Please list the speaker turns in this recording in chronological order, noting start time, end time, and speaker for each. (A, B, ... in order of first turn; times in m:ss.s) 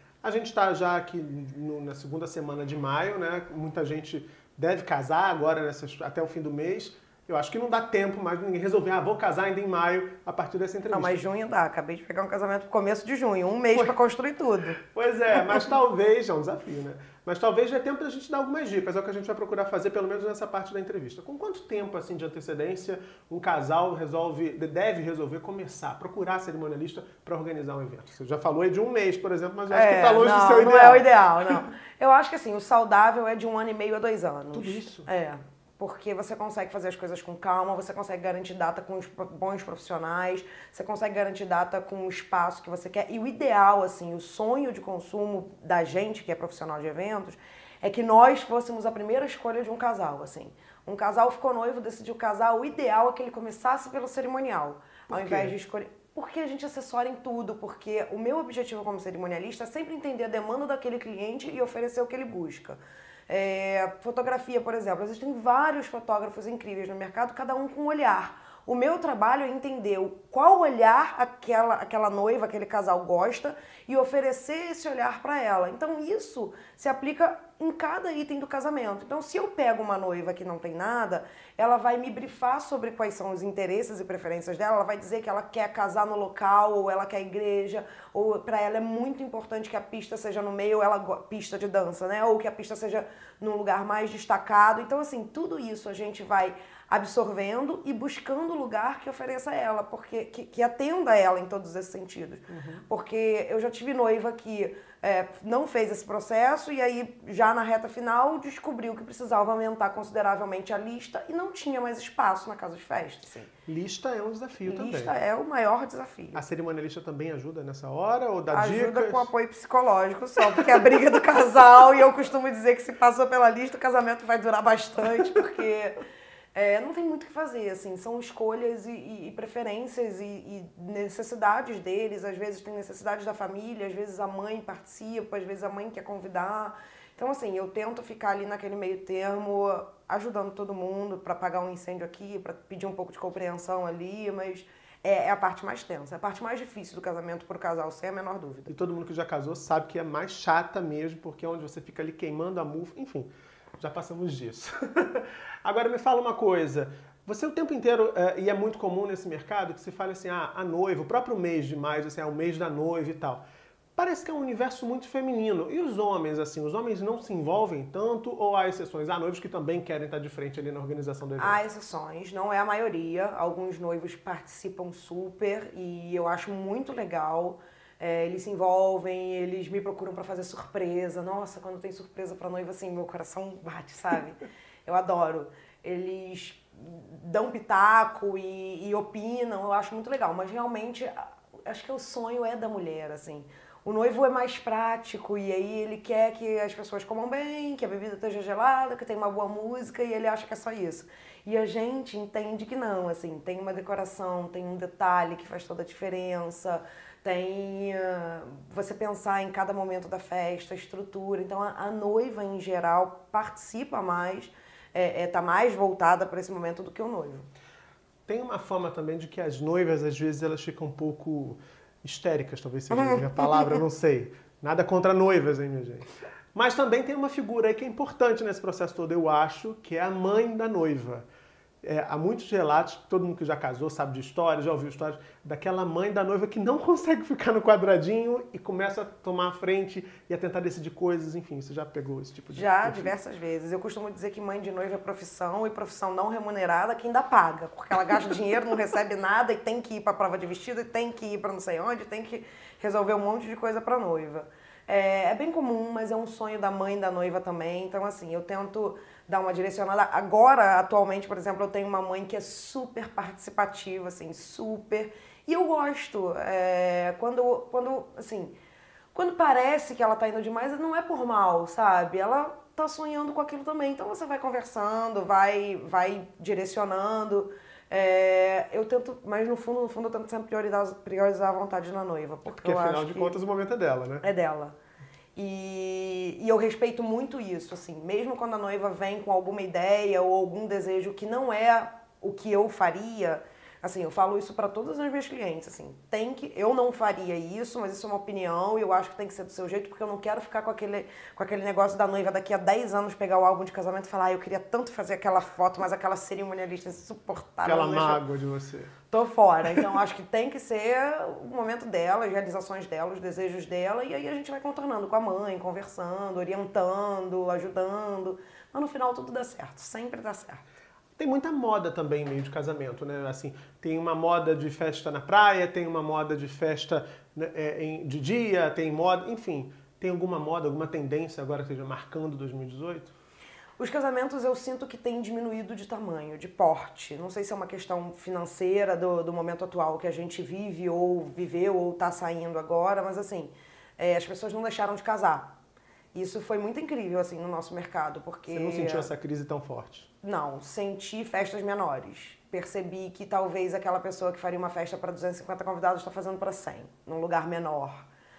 0:00.2-0:11.2 A
0:10.9-0:14.8 B
0:14.9-0:31.5 A
0:29.7-1:53.5 B
0:34.5-0:35.1 A
0:55.1-0:55.6 A
1:42.5-1:42.8 A
1:53.7-1:55.1 A
1:54.7-1:56.4 B
1:56.4-1:59.3 A
1:58.5-2:06.0 B
2:06.6-2:28.7 B
2:28.7-2:43.4 A
2:44.0-2:51.6 A
2:51.4-3:37.5 B
3:38.3-3:51.3 A
3:42.9-3:43.8 B
3:51.8-4:03.1 A
4:02.5-4:28.5 B
4:29.1-4:43.4 B
4:42.5-4:44.3 A
4:44.2-4:44.8 B
4:45.4-5:08.2 B
5:07.6-5:08.9 A
5:09.1-5:20.6 B
5:21.2-5:33.1 A
5:33.8-5:45.5 B
5:46.1-5:49.1 B
5:48.5-5:50.1 A
5:50.2-5:58.0 B